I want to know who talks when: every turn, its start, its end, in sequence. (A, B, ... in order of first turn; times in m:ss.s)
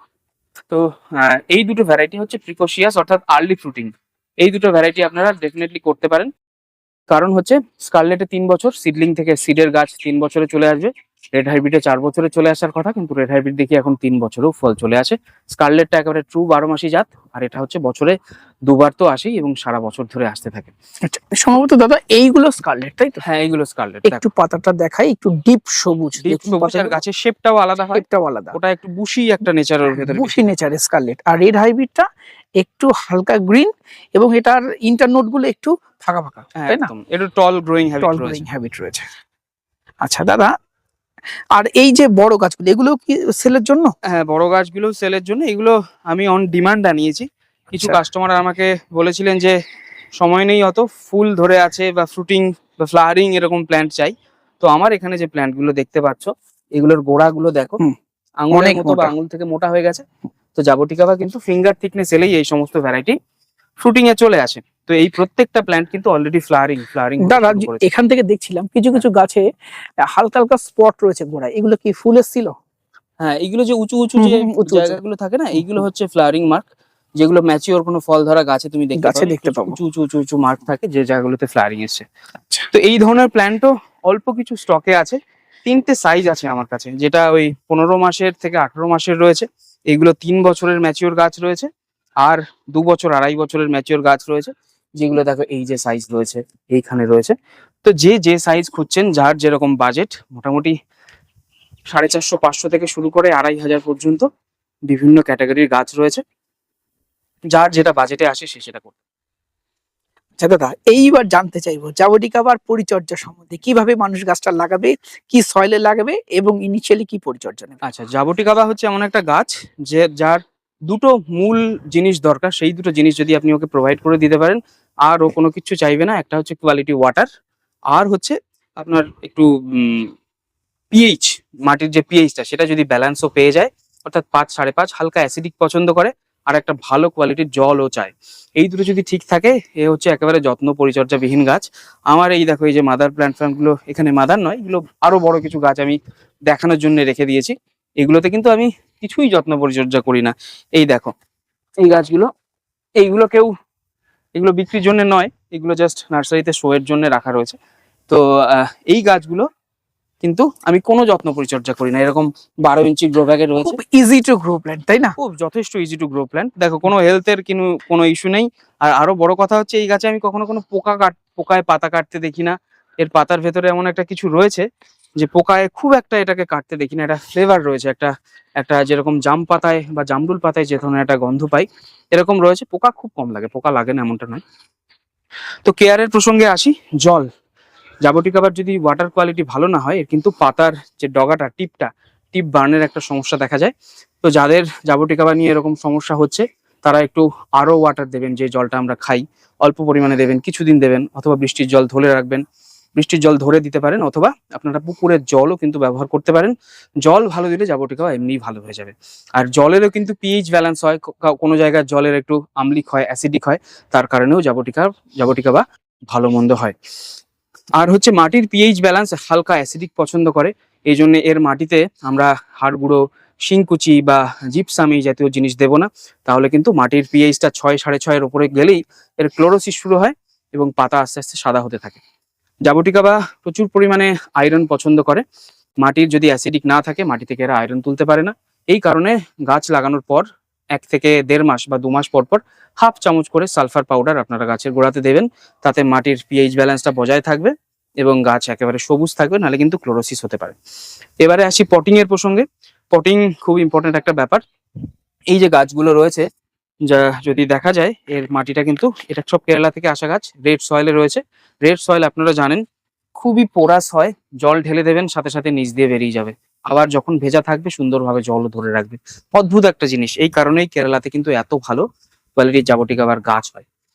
0:00.7-0:06.3 A
0:07.1-0:20.7 A
0:21.1-0:23.2 B
0:23.2-0:24.2 A
0:24.0-0:27.0 B
0:26.2-0:30.5 A
0:27.9-0:28.6 B
0:29.9-0:32.1 B
0:32.6-0:36.9 B
0:36.6-0:38.4 A
0:38.0-0:39.0 B
0:40.0-0:40.5 B
0:41.6-0:43.9 B
0:44.1-0:49.6 A
0:50.2-0:57.8 A
0:58.4-1:00.0 A
0:58.5-0:59.1 B
1:00.6-1:03.2 A
1:03.8-1:07.8 A
1:07.2-1:09.5 B
1:10.1-1:12.5 B
1:13.2-1:16.6 A
1:14.2-1:15.0 B
1:17.2-1:22.0 A
1:19.0-1:19.8 B
1:22.7-1:31.7 A
1:32.2-1:40.8 A
1:41.9-1:44.3 A
1:44.9-1:46.2 A
1:47.5-1:48.9 A
1:50.4-1:57.8 B
1:57.9-2:07.3 A
2:07.9-2:10.1 A
2:10.9-2:31.1 A
2:31.8-2:32.3 A
2:33.0-2:33.5 A
2:34.4-2:37.6 A
2:38.1-2:39.5 A
2:40.2-2:43.8 A
2:43.6-2:45.2 B
2:45.2-2:54.7 A
2:55.2-3:04.4 A
3:05.7-3:07.3 A
3:08.0-3:13.7 A
3:14.2-3:22.4 A
3:23.0-3:36.8 A
3:37.8-3:52.0 A
3:52.6-3:55.2 A
3:55.8-4:10.6 A
4:11.2-4:14.4 A
4:15.3-4:16.3 A
4:16.9-4:22.6 A
4:23.2-4:31.8 A
4:32.4-4:33.6 A